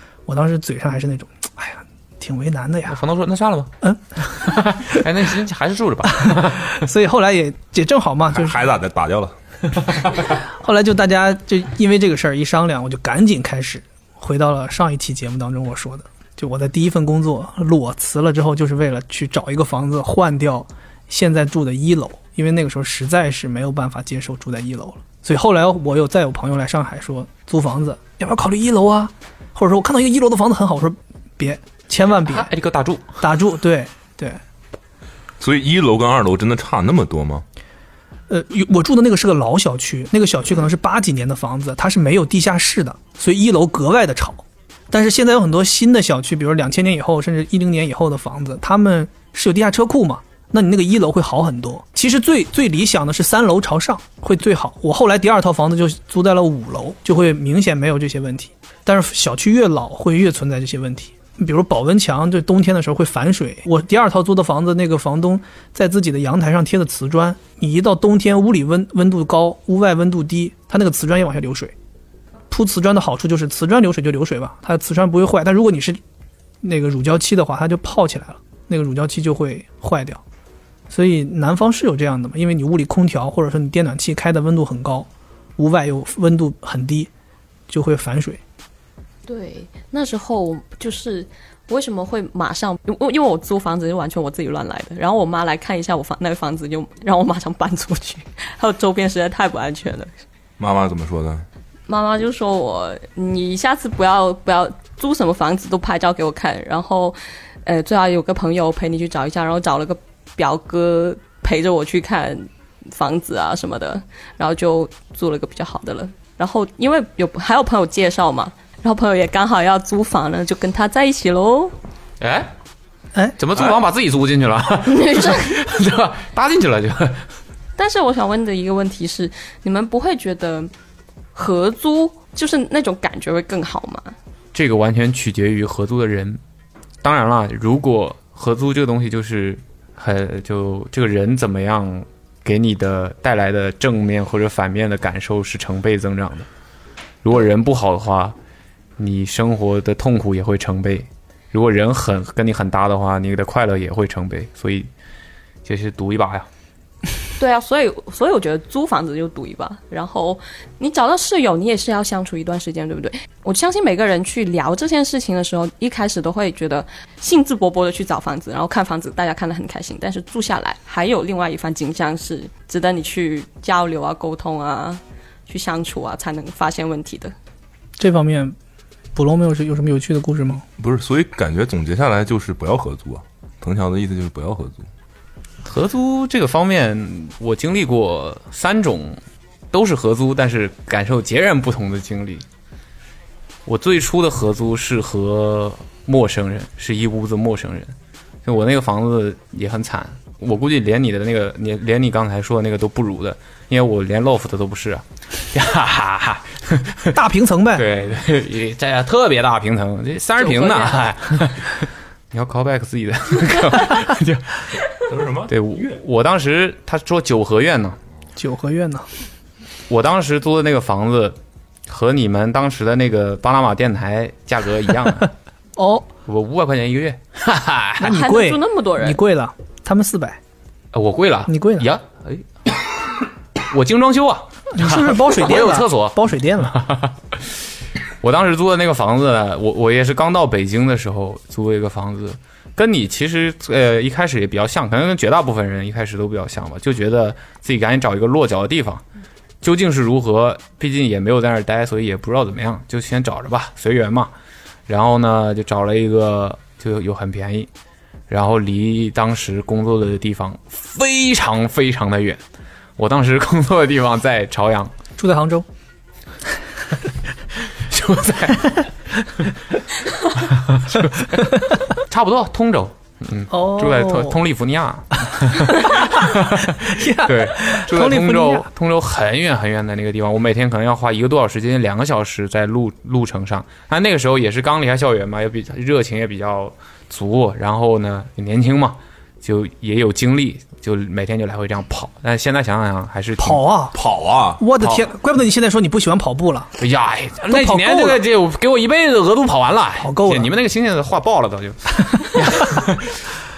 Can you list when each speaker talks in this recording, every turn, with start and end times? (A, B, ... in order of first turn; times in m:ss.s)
0:00.3-0:03.0 A
0:02.9-0:03.7 B
0:03.8-0:04.2 A
0:04.3-0:06.7 B
0:06.1-0:08.6 A
0:08.3-0:09.3 C
0:10.4-0:32.5 A
0:32.2-0:33.0 B
0:33.2-0:34.4 A
0:35.4-0:37.4 C
0:38.3-1:11.7 A
1:12.5-1:16.0 A
1:16.6-1:20.2 A
1:20.9-1:27.1 A
1:27.7-1:28.4 A
1:29.3-1:40.1 D
1:40.6-1:41.4 C
1:41.9-2:01.7 D
2:02.2-2:02.5 B
2:03.4-2:07.2 B
2:04.9-2:05.5 D
2:07.8-2:10.7 D
2:11.4-2:14.1 D
2:14.5-2:16.4 B
2:17.0-2:26.5 B
2:27.2-2:28.4 B
2:29.0-2:34.9 B
2:35.6-2:36.5 B
2:37.4-2:57.3 D
2:58.0-2:58.6 A
2:59.1-3:00.6 A
3:00.8-3:04.8 C
3:05.6-3:09.2 B
3:09.7-3:12.4 B
3:13.6-3:17.9 B
3:18.4-3:27.2 B
3:27.1-3:27.9 A
3:27.7-3:34.6 B
3:30.4-3:31.0 D
3:35.1-3:36.0 C
3:35.5-3:38.0 B
3:38.4-3:39.0 A
3:39.9-3:41.4 B
3:41.9-3:45.3 B
3:45.8-3:46.1 A
3:46.3-3:48.1 B
3:48.0-3:50.4 A
3:48.0-3:49.2 D
3:50.9-3:52.8 B
3:51.5-3:51.9 A
3:53.7-3:57.5 B
3:54.7-3:56.8 A
3:58.2-4:09.0 B
4:09.6-4:14.3 B
4:14.9-4:17.7 B
4:18.3-4:22.4 B
4:23.0-4:24.9 B
4:25.2-4:25.6 A
4:27.9-4:28.9 B
4:30.4-4:53.6 B
4:33.5-4:34.4 A
4:35.7-4:38.7 A
4:53.4-4:54.0 A
4:53.9-4:54.6 C
4:54.6-4:56.7 A
4:54.8-4:55.0 B
4:56.8-5:03.2 B
4:57.5-4:58.2 A
5:00.0-5:00.5 A